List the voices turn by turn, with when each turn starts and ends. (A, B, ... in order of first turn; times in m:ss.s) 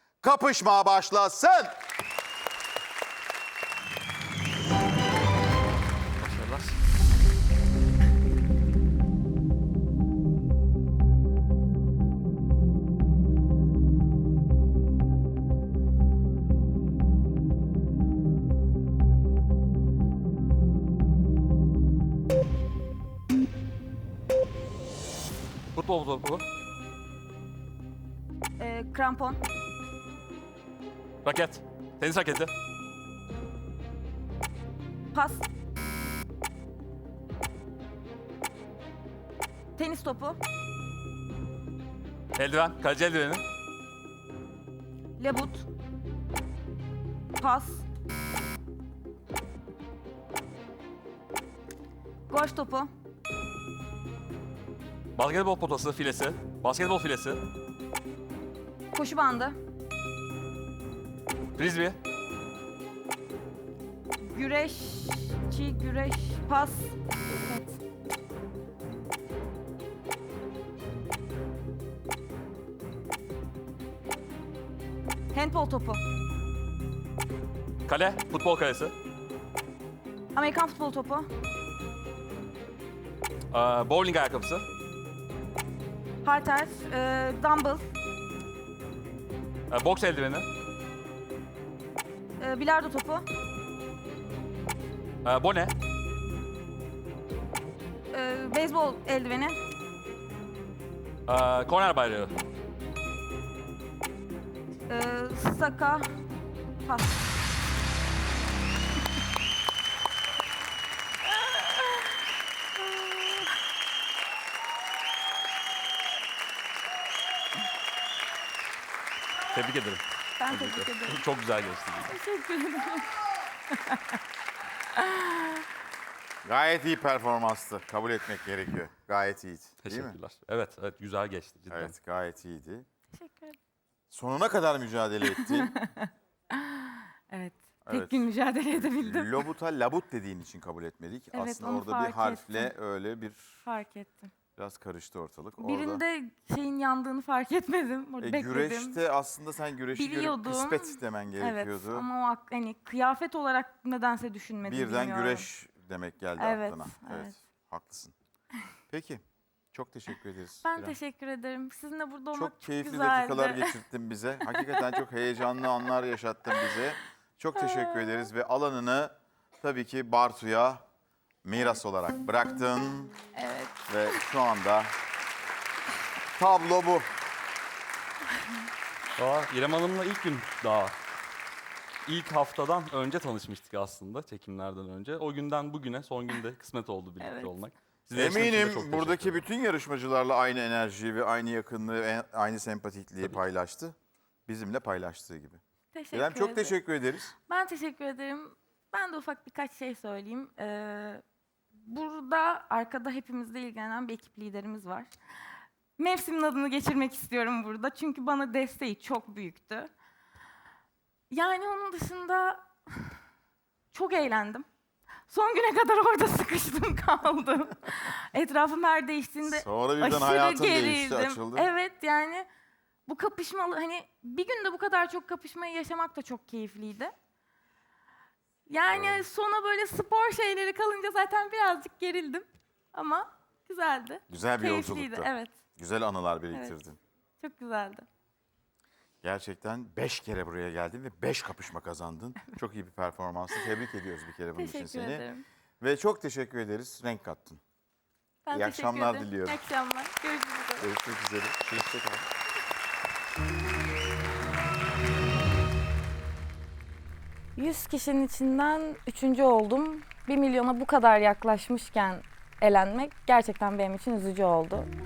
0:00.2-0:01.8 A
0:06.2-0:06.8 B
0:25.7-0:26.4 B
0:28.6-0:29.4 C
0:31.2-0:32.5 B
0:35.1-0:35.5 C
0:39.8-0:40.4 C
0:42.4-0:43.4 B
0:45.2-0:45.7 C
0:47.4-0:47.8 C
0:52.3-0:52.9 C
0:55.2-0:57.4 B
0:58.9-0:59.6 C
1:01.6-1:02.0 B
1:04.2-1:07.8 C
1:15.3-1:16.0 C
1:17.9-1:18.9 B
1:20.4-1:21.3 C
1:23.5-1:24.7 B
1:26.2-1:27.8 C
1:29.7-1:30.5 B
1:32.4-1:33.3 C
1:35.2-1:35.7 B
1:38.1-1:39.6 C
1:41.3-1:42.3 B
1:44.9-1:46.1 C
1:46.8-1:47.2 C
1:52.8-1:53.5 C
1:59.5-2:02.1 B
2:00.4-2:01.2 C
2:02.1-2:03.1 C
2:03.7-2:04.0 C
2:05.0-2:05.5 C
2:06.4-2:10.2 A
2:09.8-2:12.0 B
2:11.7-2:12.9 A
2:13.1-2:13.6 C
2:14.1-2:15.7 A
2:15.4-2:19.4 C
2:17.9-2:23.6 A
2:21.3-2:22.7 C
2:23.6-2:24.3 C
2:24.6-2:26.0 A
2:25.6-2:29.0 C
2:28.2-2:32.1 A
2:29.9-2:35.5 C
2:34.6-2:38.1 A
2:36.4-2:37.3 C
2:38.9-2:41.0 A
2:40.6-2:43.8 C
2:42.3-2:50.8 A
2:44.5-2:45.0 C
2:47.6-2:48.3 C
2:51.4-2:53.1 A
2:53.4-2:54.1 C
2:53.9-2:54.9 A
2:56.4-2:57.1 A
2:59.2-3:01.0 B
3:02.1-3:09.4 B
3:07.2-3:07.5 C
3:08.1-3:14.0 A
3:14.5-3:15.6 A
3:15.9-3:16.8 C
3:16.1-3:17.3 A
3:17.5-3:21.2 C
3:21.8-3:25.1 C
3:26.0-3:29.9 C
3:31.3-3:33.1 C
3:33.9-3:34.7 C
3:35.3-3:42.5 C
3:39.4-3:41.7 A
3:43.1-3:47.1 C
3:48.7-3:55.6 C
3:48.9-3:49.2 A
3:54.3-3:57.0 A
3:57.4-3:58.0 C
3:59.2-4:05.3 A
4:04.6-4:05.4 C
4:05.8-4:07.6 A
4:08.4-4:10.9 C
4:08.5-4:09.6 A
4:10.8-4:12.2 A
4:17.6-4:24.9 C